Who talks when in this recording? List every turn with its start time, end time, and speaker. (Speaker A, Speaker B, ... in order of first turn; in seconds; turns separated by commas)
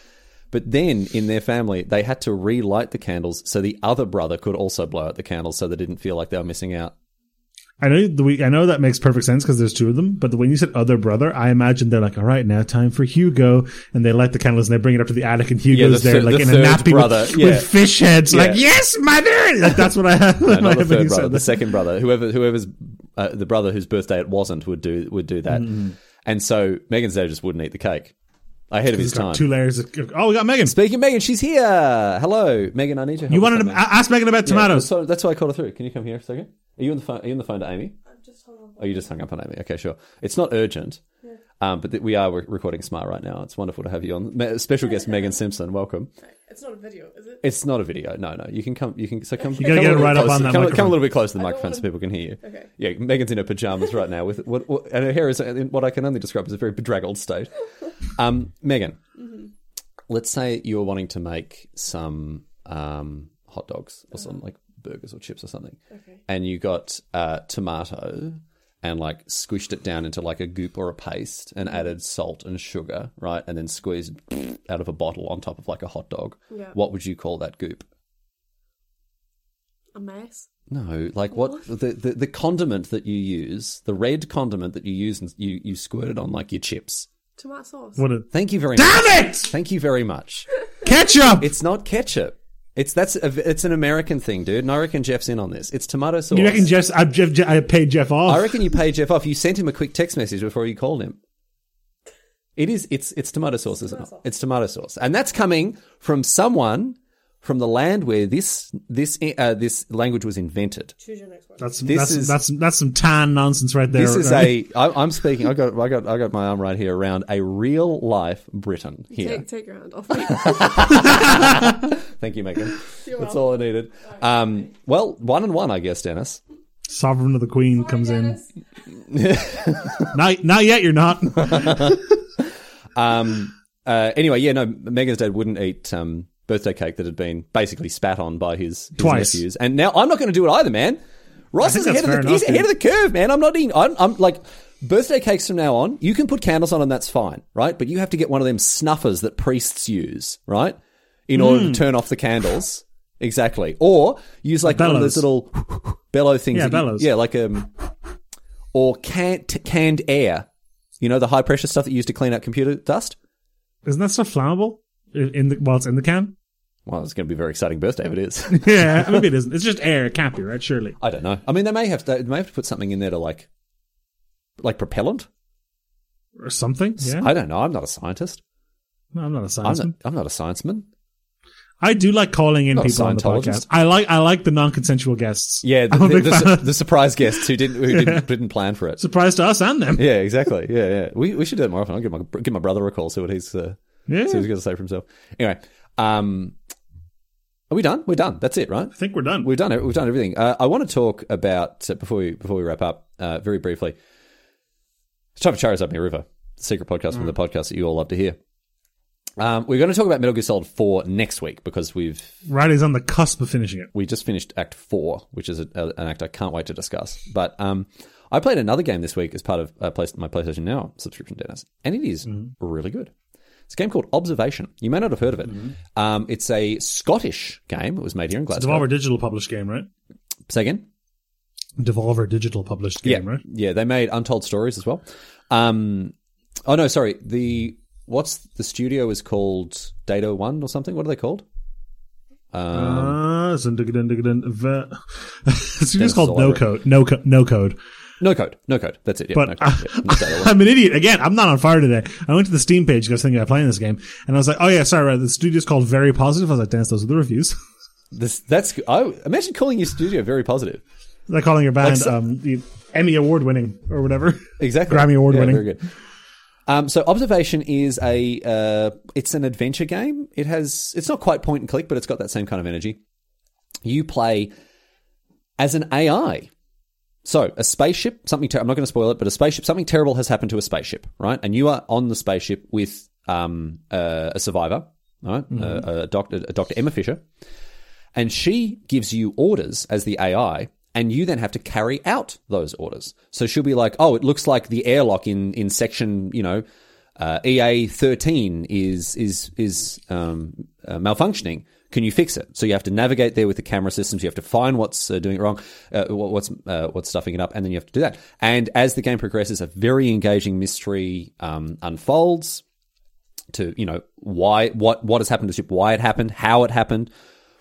Speaker A: 0.5-6.9, Speaker B: 7.8-21.6, Speaker A: 15.7-17.7, Speaker A: 18.3-18.6, Speaker A: 20.4-28.1, Speaker B: 25.5-25.9, Speaker A: 28.7-29.4, Speaker B: 28.9-30.7, Speaker A: 30.6-33.8, Speaker B: 33.3-34.9, Speaker A: 34.4-38.0, Speaker C: 38.1-39.1, Speaker A: 38.8-41.0, Speaker A: 41.6-46.1, Speaker C: 45.0-45.3, Speaker C: 46.2-47.4, Speaker A: 47.4-57.5, Speaker C: 49.4-50.4, Speaker B: 49.6-51.0, Speaker C: 51.3-52.7, Speaker A: 58.1-59.0, Speaker C: 59.2-59.5, Speaker A: 60.1-65.8, Speaker C: 65.9-66.2, Speaker A: 66.3-77.9, Speaker C: 76.5-76.8, Speaker C: 79.9-80.5, Speaker A: 80.7-87.1, Speaker C: 87.4-88.0, Speaker B: 88.0-89.5, Speaker A: 88.3-90.5, Speaker B: 90.8-91.5, Speaker A: 91.4-96.7, Speaker B: 96.3-98.7, Speaker A: 98.3-101.2, Speaker A: 102.5-110.9, Speaker C: 103.8-104.2, Speaker C: 111.0-111.8, Speaker B: 111.6-114.6, Speaker A: 111.9-112.4, Speaker A: 113.9-119.4, Speaker C: 119.1-121.5, Speaker A: 120.2-126.4, Speaker B: 121.0-121.7, Speaker C: 122.9-123.7, Speaker B: 126.9-128.4, Speaker C: 127.8-128.5, Speaker A: 129.1-130.1, Speaker B: 130.1-132.2, Speaker A: 131.4-132.0, Speaker A: 132.9-141.0, Speaker B: 139.0-139.4, Speaker A: 141.5-157.7, Speaker B: 141.6-142.7, Speaker B: 151.3-151.8, Speaker B: 154.7-155.3, Speaker B: 156.5-157.1, Speaker A: 158.7-160.5, Speaker A: 161.0-163.2, Speaker B: 163.8-166.3, Speaker A: 166.9-169.3, Speaker B: 168.5-171.0, Speaker A: 171.0-173.5, Speaker A: 174.6-175.3, Speaker B: 176.4-177.3, Speaker A: 177.0-178.4, Speaker B: 179.1-179.9, Speaker A: 179.6-180.9, Speaker B: 181.8-186.7, Speaker A: 182.7-183.6, Speaker A: 185.6-189.0, Speaker B: 187.3-188.3, Speaker B: 189.0-190.0, Speaker A: 189.9-196.6, Speaker B: 194.1-194.5, Speaker A: 197.7-204.0, Speaker B: 198.9-199.5, Speaker A: 205.4-208.4, Speaker A: 209.4-212.4, Speaker B: 212.4-213.9, Speaker A: 213.9-223.1, Speaker A: 223.7-228.9, Speaker B: 228.5-229.9, Speaker A: 230.5-230.9, Speaker B: 231.8-233.4, Speaker A: 233.0-236.1, Speaker A: 236.6-241.4, Speaker A: 242.5-243.2, Speaker B: 242.7-247.8, Speaker A: 246.0-246.6, Speaker A: 248.2-250.6, Speaker B: 249.3-257.6, Speaker A: 258.1-260.8, Speaker B: 261.3-265.7, Speaker A: 261.8-262.1, Speaker A: 264.6-265.9, Speaker A: 266.7-273.0, Speaker A: 273.8-274.5, Speaker A: 275.6-276.5, Speaker A: 277.2-287.2, Speaker B: 285.6-285.8, Speaker A: 288.1-296.6, Speaker A: 297.2-312.6, Speaker A: 313.5-317.1